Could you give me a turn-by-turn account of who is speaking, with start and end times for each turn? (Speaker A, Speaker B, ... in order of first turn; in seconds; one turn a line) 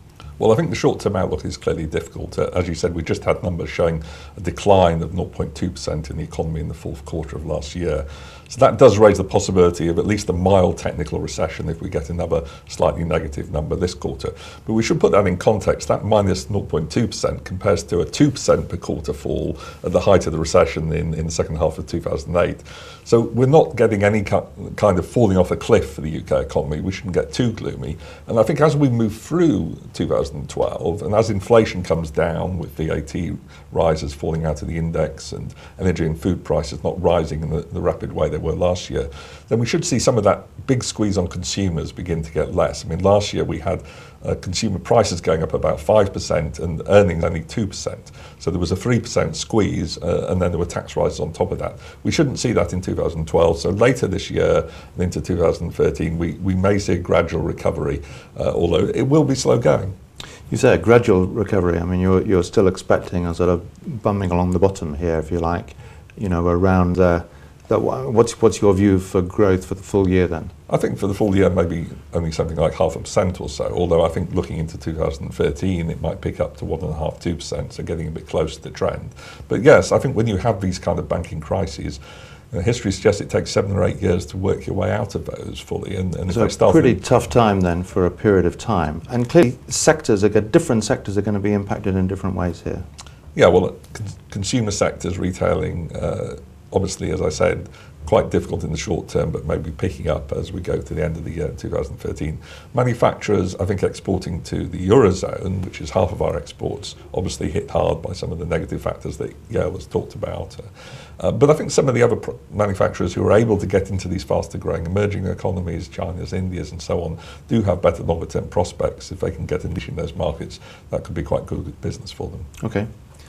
Speaker A: 0.4-59.9
Speaker B: 60.5-70.5
Speaker A: 70.7-82.0
Speaker A: 82.5-87.0
Speaker B: 86.3-92.8
Speaker A: 93.3-110.7
Speaker A: 111.2-122.5
Speaker B: 122.6-122.9